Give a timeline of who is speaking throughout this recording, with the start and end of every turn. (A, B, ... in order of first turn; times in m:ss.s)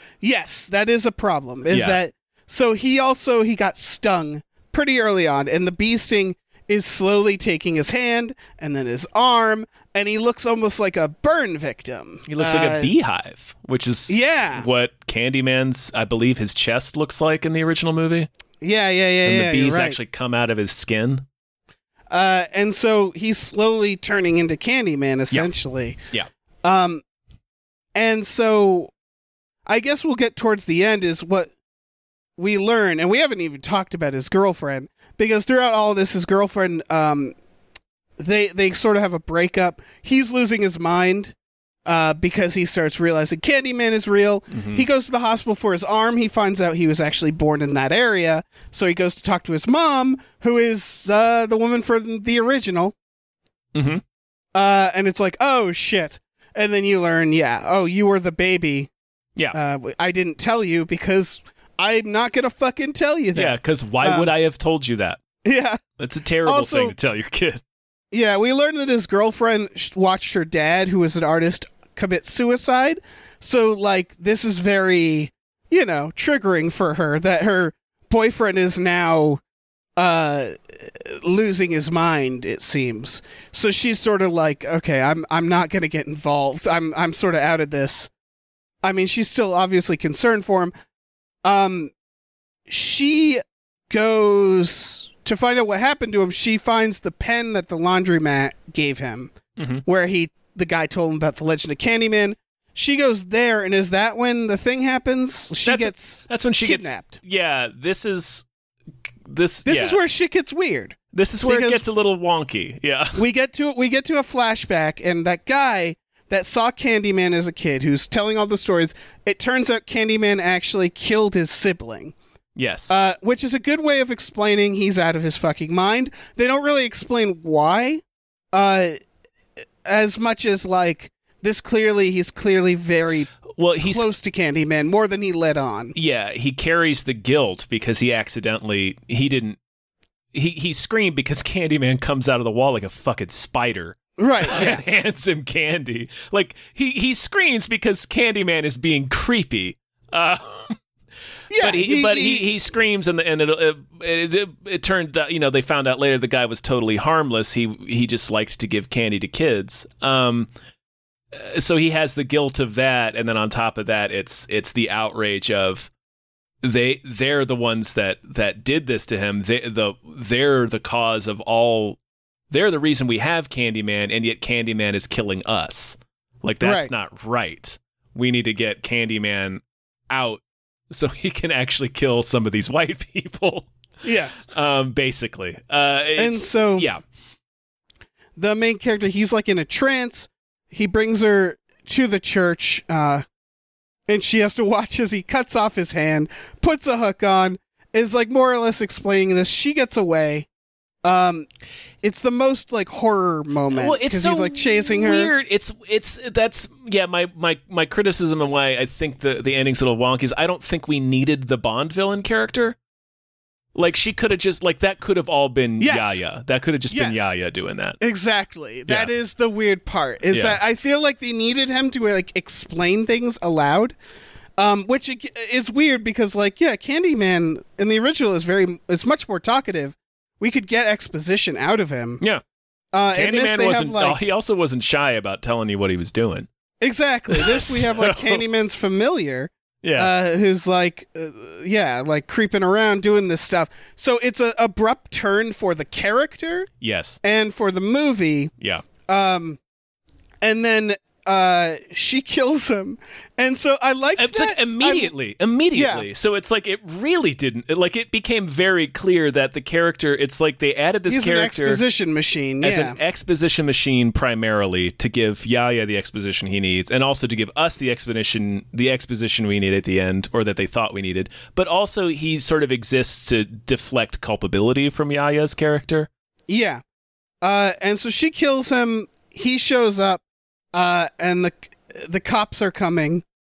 0:00.2-0:12.9 A
0:01.7-0:02.0 B
0:12.3-0:18.3 B
0:14.1-0:14.7 A
0:18.6-0:20.0 A
0:19.2-0:21.2 B
0:22.1-0:26.0 A
0:26.6-0:27.0 A
0:27.9-0:28.9 A
0:29.6-0:31.5 A
0:32.4-0:37.3 A
0:38.2-0:52.9 A
0:44.5-0:44.8 B
0:53.7-0:54.0 B
0:54.5-0:58.9 A
0:59.5-1:04.3 A
1:03.3-1:05.2 B
1:05.4-1:05.8 A
1:06.0-1:07.6 B
1:06.4-1:06.9 A
1:08.1-1:19.4 A
1:20.0-1:28.1 A
1:28.8-1:30.7 A
1:31.4-1:31.9 A
1:32.7-1:39.3 A
1:39.6-1:39.8 B
1:39.8-1:47.2 A
1:45.6-1:48.4 B
1:49.3-1:50.0 B
1:49.6-1:51.8 A
1:51.1-1:53.2 B
1:53.2-2:02.1 A
2:02.6-2:03.0 B
2:02.9-2:09.0 A
2:09.8-2:13.3 A
2:13.5-2:14.1 B
2:13.8-2:15.9 A
2:15.9-2:19.6 B
2:20.3-2:30.8 B
2:24.2-2:24.8 A
2:31.5-2:32.4 A
2:31.5-2:40.5 B
2:41.3-2:45.9 B
2:46.6-2:52.0 B
2:52.5-3:03.7 B
2:56.6-2:56.9 A
3:04.0-3:04.4 A
3:04.4-3:07.0 B
3:06.2-3:06.9 A
3:08.4-3:13.2 A
3:14.1-3:20.5 A
3:21.0-3:21.5 A
3:22.0-3:25.3 A
3:23.7-3:32.8 B
3:33.7-3:38.0 B
3:35.8-3:36.2 A
3:36.9-3:37.3 A
3:38.0-3:44.0 A
3:38.9-3:39.1 B
3:40.3-3:40.6 B
3:44.6-3:52.2 A
3:52.9-3:54.2 A
3:53.1-3:56.5 B
3:56.8-4:06.7 A
3:57.3-3:58.4 B
3:59.8-4:00.1 B
4:06.8-4:07.2 B
4:07.2-4:08.5 A
4:09.0-4:09.6 A
4:10.4-4:15.1 A
4:14.2-4:21.8 B
4:15.7-4:16.1 A
4:21.1-4:23.0 A
4:22.6-4:36.1 B
4:36.5-4:36.8 A
4:37.4-4:40.2 A
4:40.7-4:43.2 A